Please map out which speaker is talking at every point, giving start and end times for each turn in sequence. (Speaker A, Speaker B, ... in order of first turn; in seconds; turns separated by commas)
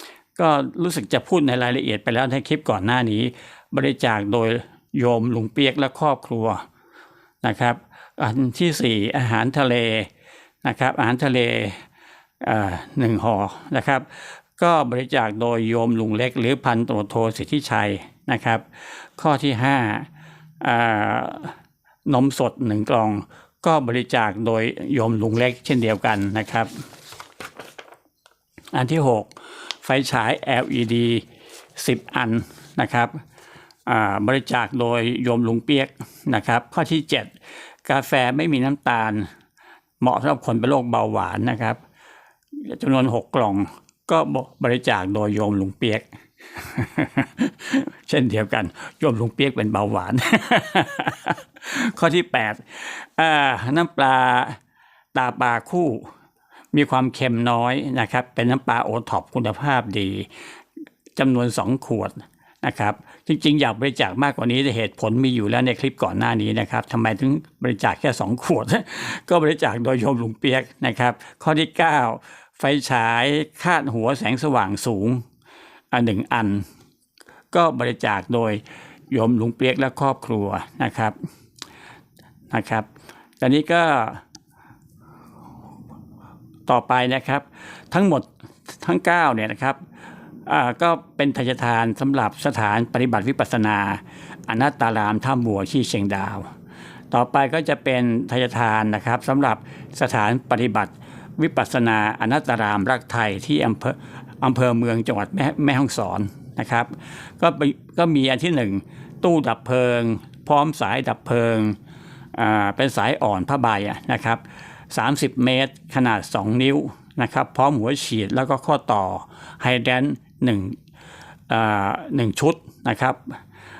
Speaker A: 0.4-6.6, Speaker A: 7.4-10.1, Speaker A: 10.6-11.8, Speaker A: 12.4-20.1, Speaker A: 20.6-21.5, Speaker A: 22.1-26.7, Speaker A: 28.7-31.2, Speaker A: 31.8-33.2, Speaker A: 33.9-37.3, Speaker A: 37.9-39.3, Speaker A: 40.0-41.8, Speaker A: 42.6-54.6, Speaker A: 55.1-56.1, Speaker A: 56.7-60.3, Speaker A: 61.2-75.2, Speaker A: 75.9-76.7, Speaker A: 77.5-81.2, Speaker A: 82.5-82.9, Speaker A: 83.4-84.2, Speaker A: 86.7-89.8, Speaker A: 90.5-96.5, Speaker A: 97.1-111.8, Speaker A: 112.3-120.8, Speaker A: 121.5-123.4